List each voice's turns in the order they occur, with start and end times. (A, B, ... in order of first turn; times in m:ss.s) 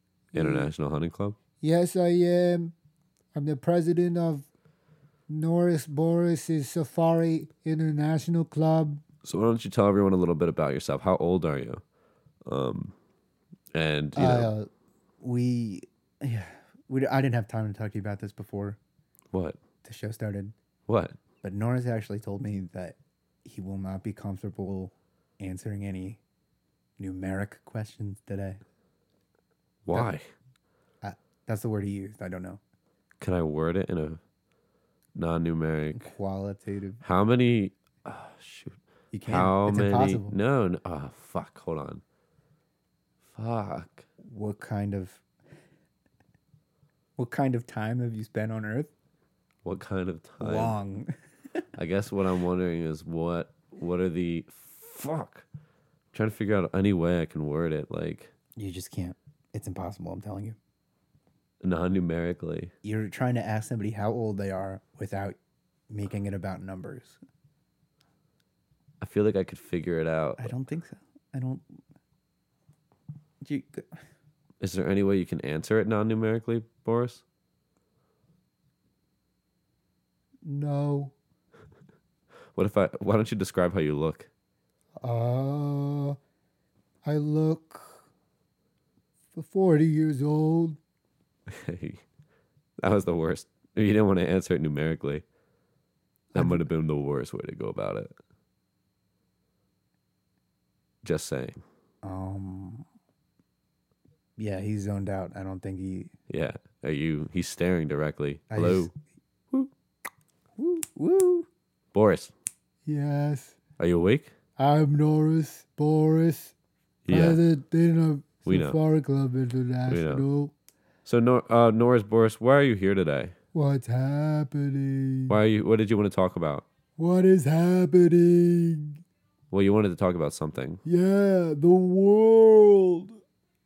0:00.3-0:01.4 A
0:01.6-0:02.7 B
0:03.3-0:04.4 B
0:05.3-0:09.0 B
0:09.2-0:11.8 A
0:12.4-0:12.9 A
0:13.7-0:14.5 A
0:14.2-0:14.7 C
0:15.2-0:18.8 C
0:19.3-0:19.6 A
0:19.8-0:20.5 C
0:20.9-0:21.2 A
0:21.4-0:26.2 C
0:27.0-0:28.6 C
0:29.8-0:30.3 A
0:31.0-0:32.6 C
0:33.2-0:34.2 A
0:35.2-0:36.1 A
0:35.9-0:37.0 C
0:37.0-0:42.0 A
0:39.1-0:40.4 C
0:43.3-0:44.0 A
0:44.2-0:45.2 C
0:47.2-0:48.9 C
0:49.6-0:50.8 A
0:50.4-0:51.1 C
0:51.8-0:55.4 A
0:56.1-0:58.3 A
0:58.6-1:00.6 C
1:01.6-1:02.7 A
1:02.8-1:05.4 C
1:05.9-1:07.2 C
1:09.0-1:10.5 A
1:10.4-1:11.6 C
1:13.4-1:14.0 C
1:14.6-1:17.2 A
1:20.4-1:21.1 B
1:22.5-1:24.3 A
1:25.0-1:26.2 B
1:27.0-1:28.0 B
1:29.3-1:30.8 B
1:31.5-1:32.0 A
1:32.8-1:35.2 A
1:36.3-1:38.1 A
1:41.0-1:41.6 A
1:42.0-1:42.8 C
1:44.4-1:46.1 C
1:46.3-1:48.9 A
1:48.5-1:48.9 C
1:50.6-1:51.5 C
1:51.9-1:52.3 A
1:52.8-1:53.6 B
1:53.8-1:54.3 A
1:54.6-1:56.5 B
1:57.1-1:57.4 A
1:57.1-2:00.5 B
1:58.4-1:58.8 A
1:59.9-2:00.2 A
2:01.0-2:03.3 A
2:03.5-2:05.4 B
2:05.3-2:06.6 A
2:07.0-2:09.0 B
2:09.5-2:10.8 A
2:10.8-2:13.2 B